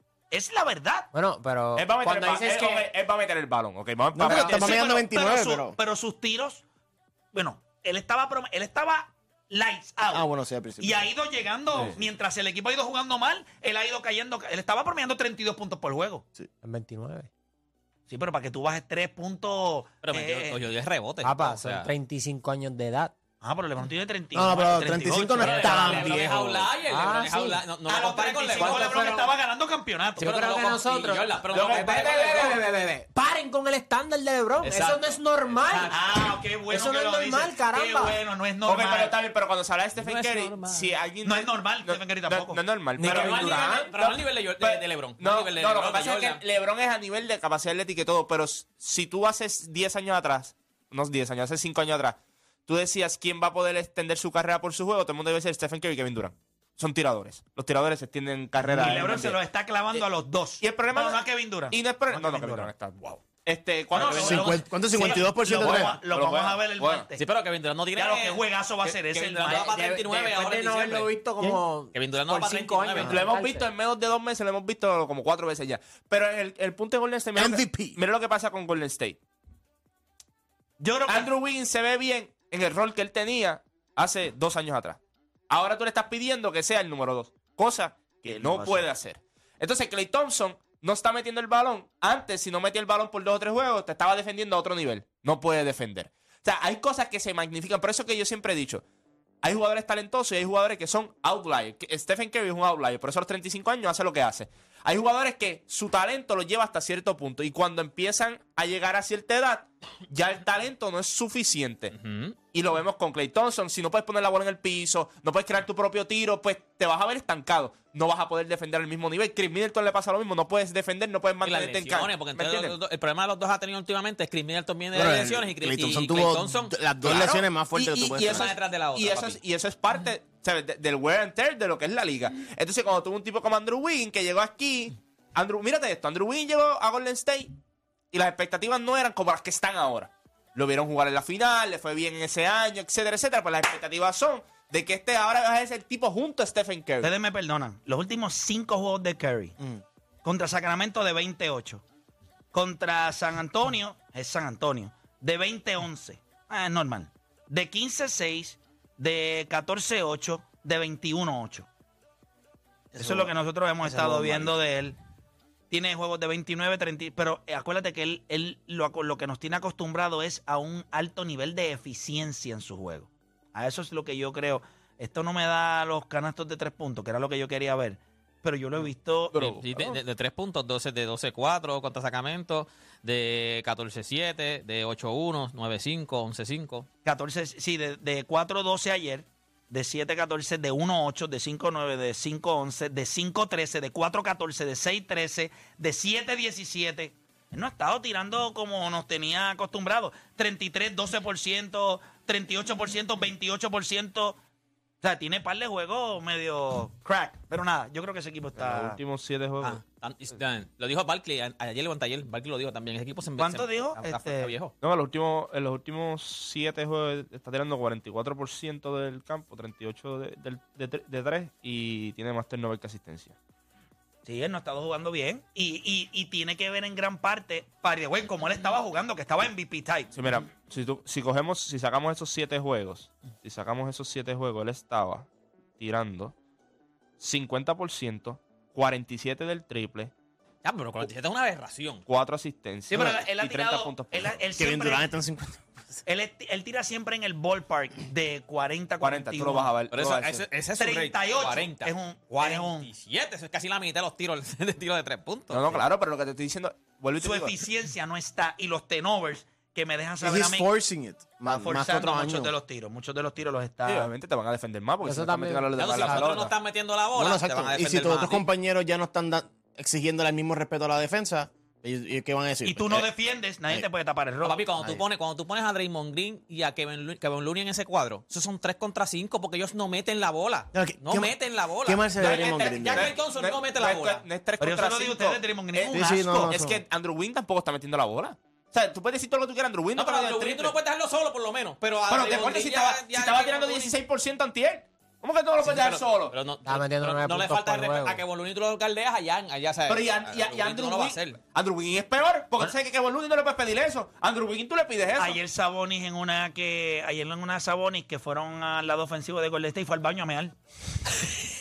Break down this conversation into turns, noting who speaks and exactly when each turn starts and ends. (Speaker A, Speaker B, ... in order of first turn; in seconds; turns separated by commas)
Speaker A: 0.3-1.1, Speaker B: 1.1-2.9, Speaker C: 1.8-4.9, Speaker D: 4.1-5.8, Speaker A: 4.2-6.6, Speaker A: 7.3-10.3, Speaker D: 10.1-11.1, Speaker A: 10.8-16.2, Speaker B: 16.6-17.3, Speaker A: 18.1-20.6, Speaker E: 20.0-21.9, Speaker B: 21.2-23.1, Speaker A: 23.4-26.3, Speaker D: 24.4-26.7, Speaker E: 25.4-29.1, Speaker B: 25.7-26.0, Speaker B: 26.9-27.6, Speaker A: 27.9-30.3, Speaker B: 28.6-29.3, Speaker E: 30.2-32.6, Speaker B: 30.2-36.0, Speaker C: 31.5-32.5, Speaker E: 34.6-36.3, Speaker A: 35.9-39.1, Speaker B: 36.7-38.2, Speaker C: 38.6-59.4, Speaker E: 40.0-40.9, Speaker A: 41.2-43.7, Speaker B: 43.0-43.9, Speaker E: 43.0-46.4, Speaker A: 58.7-62.7, Speaker D: 58.8-59.1, Speaker C: 60.6-67.1, Speaker A: 63.9-67.2, Speaker D: 64.1-66.0, Speaker E: 67.2-71.2, Speaker A: 68.0-69.8, Speaker B: 69.5-73.7, Speaker E: 71.9-73.3, Speaker C: 73.0-79.2, Speaker D: 77.4-78.0, Speaker A: 80.8-81.3, Speaker C: 81.1-98.8, Speaker A: 88.2-88.8, Speaker C: 99.4-111.9, Speaker E: 111.9-112.4, Speaker C: 112.5-122.8, Speaker E: 121.4-126.8, Speaker D: 124.9-128.5, Speaker C: 127.0-137.5, Speaker E: 128.2-129.4, Speaker C: 138.1-147.1, Speaker A: 147.0-149.6, Speaker A: 150.2-151.8, Speaker A: 152.5-161.7, Speaker D: 162.9-163.3, Speaker A: 163.0-165.0, Speaker D: 163.8-164.6, Speaker A: 165.7-179.5, Speaker C: 179.3-180.0, Speaker E: 179.4-186.9, Speaker A: 187.1-204.4, Speaker A: 205.0-209.0, Speaker C: 208.6-209.8, Speaker E: 209.6-214.8, Speaker A: 213.4-214.5, Speaker C: 214.8-223.3, Speaker A: 224.3-230.1, Speaker C: 230.1-235.3, Speaker C: 235.8-236.3, Speaker C: 237.2-240.1, Speaker E: 240.6-242.1, Speaker C: 242.1-244.4, Speaker A: 242.9-245.1, Speaker D: 244.6-245.6, Speaker A: 246.1-249.8, Speaker C: 249.0-250.4, Speaker E: 249.9-255.8, Speaker A: 250.8-252.9, Speaker C: 255.5-257.6, Speaker A: 257.2-260.7, Speaker D: 260.2-262.5, Speaker A: 261.5-264.1, Speaker C: 263.9-266.5, Speaker B: 265.0-266.3, Speaker E: 265.8-268.5, Speaker D: 267.1-273.1, Speaker A: 272.6-274.6, Speaker E: 274.4-284.2, Speaker D: 280.7-283.1, Speaker C: 282.1-290.8, Speaker A: 284.6-286.5, Speaker D: 285.9-286.8, Speaker E: 289.9-294.0, Speaker C: 292.1-296.4, Speaker E: 295.6-301.4, Speaker B: 296.6-298.2, Speaker C: 299.9-305.4, Speaker A: 305.2-310.6